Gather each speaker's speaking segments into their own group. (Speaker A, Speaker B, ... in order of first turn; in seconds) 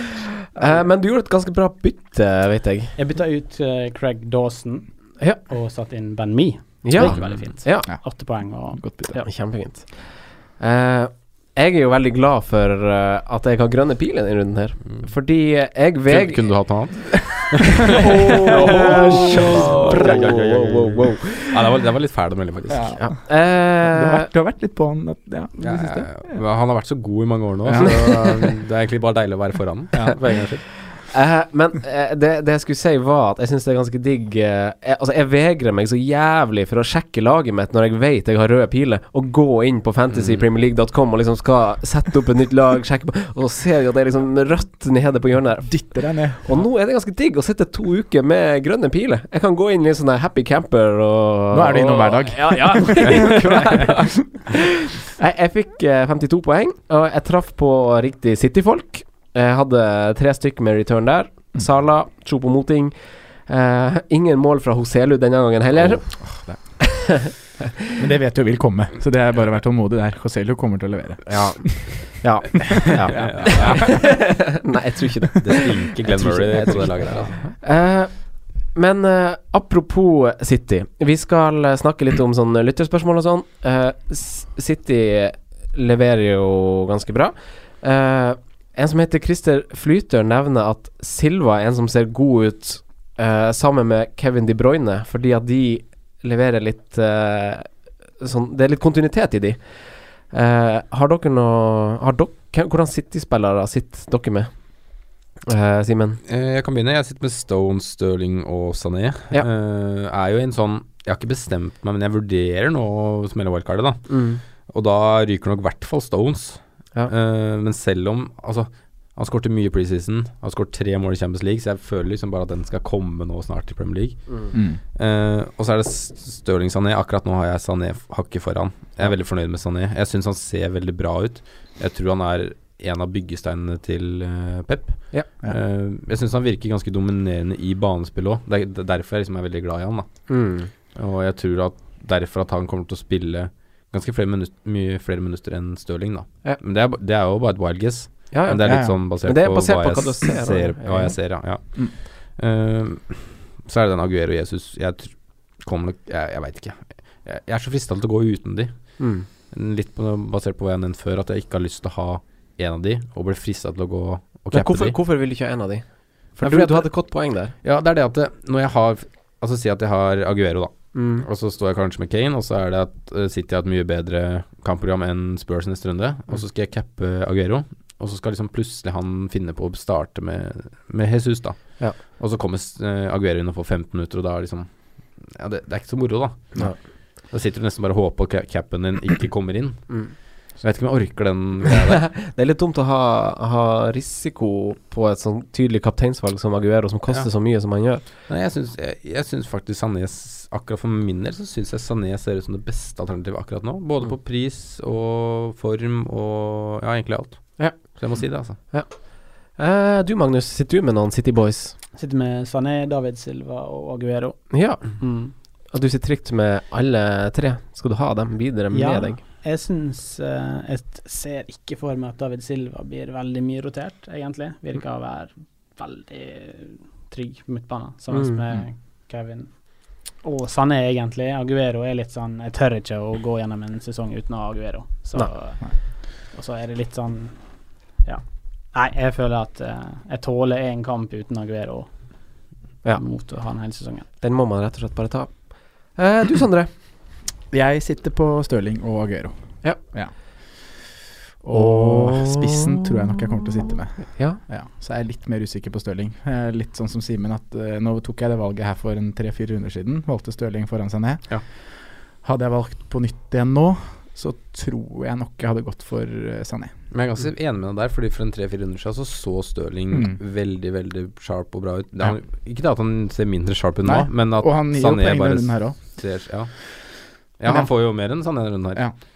Speaker A: 0.6-2.9, 6.8-7.9, 9.2-16.7, 17.9-21.8, 23.0-24.3, 27.8-28.1, 30.9-66.2, 66.8-67.5, 71.3-106.2, 114.1-114.4, 140.3-140.7, 148.3-151.2, 159.0-159.3, 164.5-167.5, 170.9-171.3, 191.7-198.1, 207.6-211.8, 214.5-219.2, 244.2-246.7, 251.5-252.7, 253.6-254.4
Speaker B: 3.0-8.9, 211.9-215.3, 218.7-242.4, 243.0-244.1
Speaker C: 7.0-7.4, 16.1-23.0, 25.6-30.6, 40.1-40.4, 65.8-66.1, 73.1-74.2, 75.4-77.5, 106.3-140.3, 140.9-165.0, 166.4-192.1, 198.3-208.6, 266.9-276.5, 277.4-278.9
Speaker D: 8.7-9.2, 17.9-20.2, 22.7-26.4, 27.6-28.2, 45.6-46.6, 51.5-54.0, 66.2-67.2, 68.0-72.0, 72.7-74.2, 124.5-124.8, 148.7-148.9, 247.5-261.4, 262.2-266.7, 269.9-270.2, 273.9-275.8